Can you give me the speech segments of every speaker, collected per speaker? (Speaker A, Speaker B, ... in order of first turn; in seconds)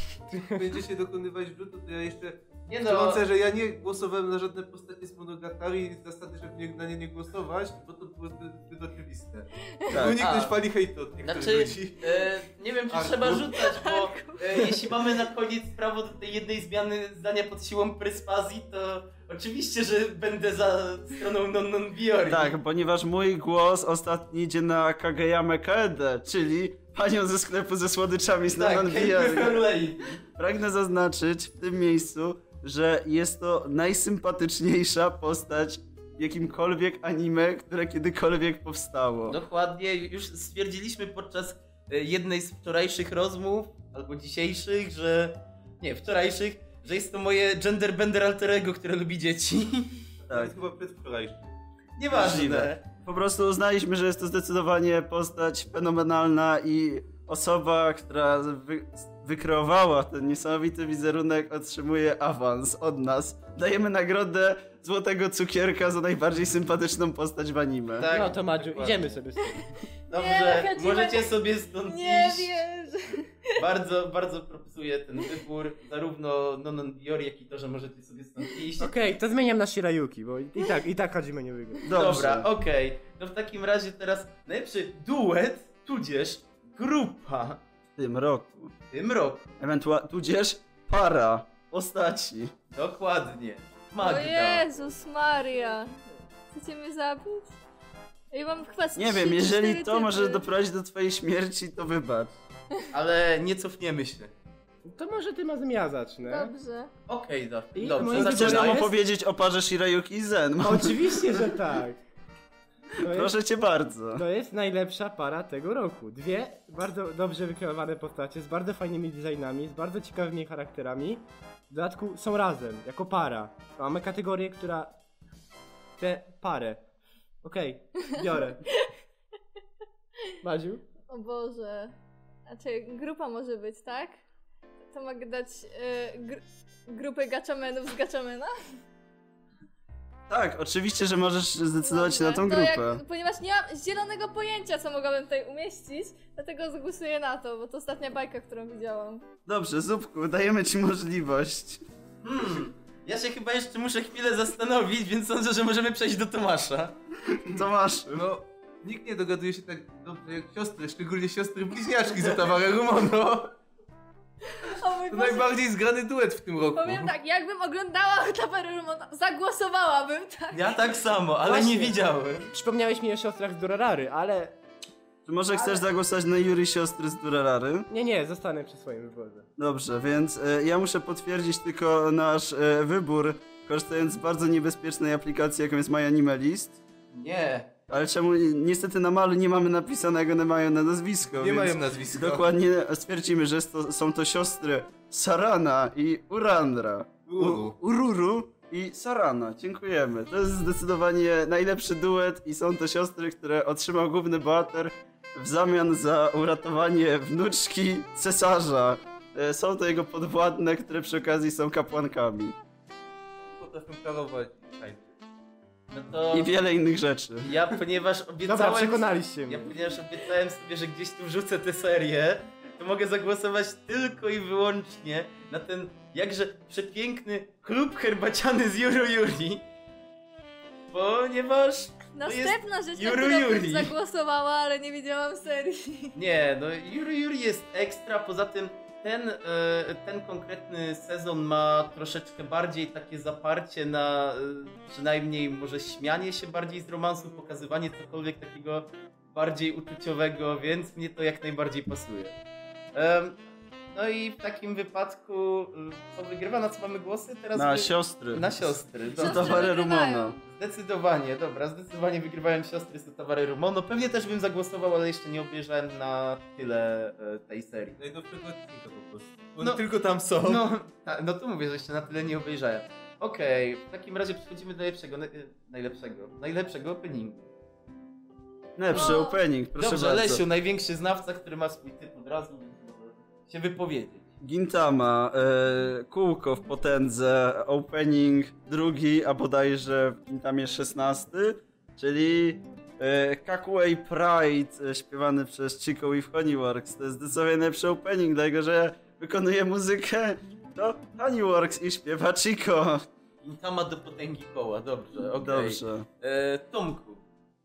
Speaker A: 0.5-12.3, 12.9-13.5, 50.2-51.5, 158.1-162.8, 165.1-167.1, 191.2-192.5, 197.3-197.8, 213.6-215.2, 268.0-270.6
Speaker B: 2.7-3.2, 10.2-10.6, 11.2-22.5, 28.5-30.2, 39.3-50.0, 52.0-52.8, 68.0-69.2, 70.1-72.6, 73.6-78.9, 81.9-87.6, 88.9-89.5, 92.8-94.7, 102.9-104.3, 107.1-108.9, 152.2-156.9, 162.1-163.5, 170.5-172.5, 187.2-187.7, 215.9-216.5, 217.4-229.6, 230.9-233.9, 236.2-252.3, 252.9-253.4, 253.9-259.7, 260.4-268.0, 269.6-277.4, 279.8-284.2, 303.4-307.2
Speaker C: 9.9-10.2, 22.3-29.6, 30.4-39.4, 50.3-50.5, 52.1-68.1, 81.8-82.5, 88.0-88.7, 89.6-92.5, 99.0-102.3, 108.0-111.4, 113.0-114.2, 140.3-143.0, 149.5-151.8, 157.4-158.2, 175.3-177.9, 179.6-186.8, 187.9-212.6, 216.3-217.5, 257.5-260.4, 278.8-280.4, 284.4-303.1, 305.4-306.1
Speaker D: 13.6-14.7, 70.1-73.6, 94.0-95.9, 96.5-97.5, 98.3-100.4, 106.2-106.9, 131.1-131.9, 132.5-134.2, 134.9-138.5, 141.8-149.2, 164.6-165.6, 166.7-170.8, 232.2-236.2, 259.1-260.4, 278.9-279.4
Speaker E: 68.1-69.7, 78.8-81.8, 104.8-106.5, 107.8-108.9, 110.6-112.0, 113.0-113.3, 114.2-124.9, 126.0-126.8, 127.4-128.6, 130.4-130.8, 171.5-171.9, 172.5-174.6, 177.9-179.5, 218.5-219.7